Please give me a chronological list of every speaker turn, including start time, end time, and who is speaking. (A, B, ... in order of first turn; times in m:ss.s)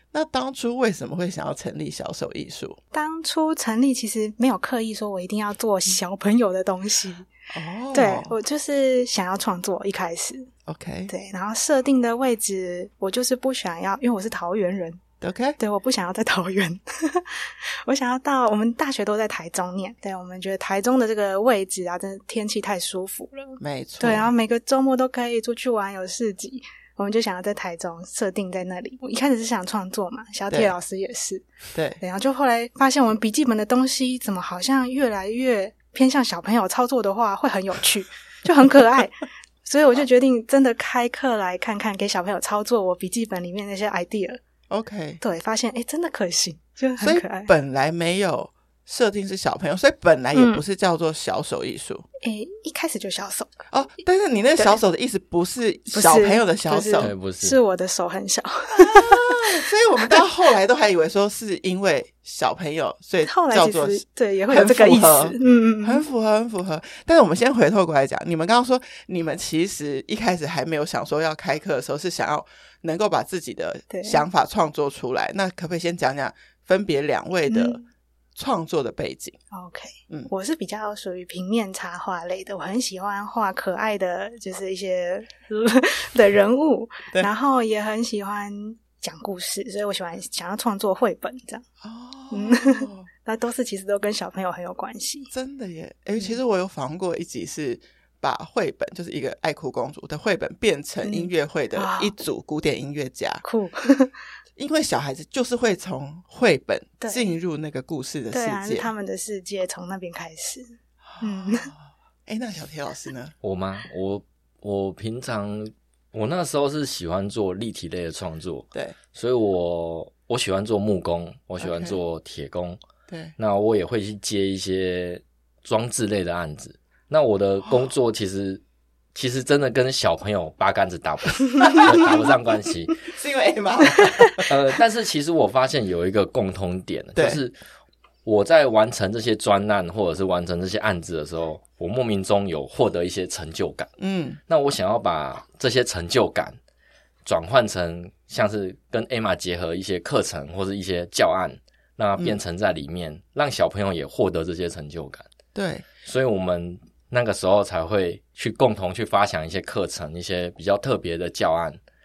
0:00.1-0:02.8 A
0:02.9-0:07.3 B
0:07.5-0:08.4 A
0:07.9-0:10.5 B
0:10.7-0:11.1 A
0:11.1-0:15.0 B
0:15.2-0:15.6 A
0:15.6-0:31.5 B
0:23.6-0:24.3 A
0:31.7-0:32.0 A
0:32.0-0:44.4 B
0:44.7-0:45.2 A
0:45.2-0:47.5 B
0:47.0-0:52.0 A
0:50.3-0:50.6 B
0:52.2-0:53.5 B
0:53.7-0:57.1 A
0:55.9-1:00.2 B
0:57.0-0:57.6 C
0:58.7-1:17.8 A
1:03.2-1:06.0 B
1:13.9-1:14.2 B
1:17.5-1:17.8 B
1:18.4-1:19.4 A
1:19.5-1:31.6 B
1:31.8-1:33.1 A
1:32.3-1:35.3 B
1:35.3-1:43.4 A
1:41.0-1:42.1 B
1:43.4-1:44.1 B
1:44.6-1:48.9 A
1:47.0-1:47.3 B
1:48.3-1:51.7 B
1:51.1-1:53.3 A
1:53.4-2:02.8 C
2:01.6-2:02.0 A
2:03.1-2:03.3 A
2:03.4-2:08.6 C
2:09.2-2:13.0 C
2:11.6-2:12.3 A
2:13.1-2:14.5 A
2:14.0-2:14.3 B
2:14.4-2:17.6 C
2:17.2-2:17.4 A
2:18.2-2:23.9 C
2:24.0-2:24.4 A
2:24.5-2:26.6 C
2:27.2-2:35.3 C
2:35.5-2:35.9 A
2:36.0-2:41.8 C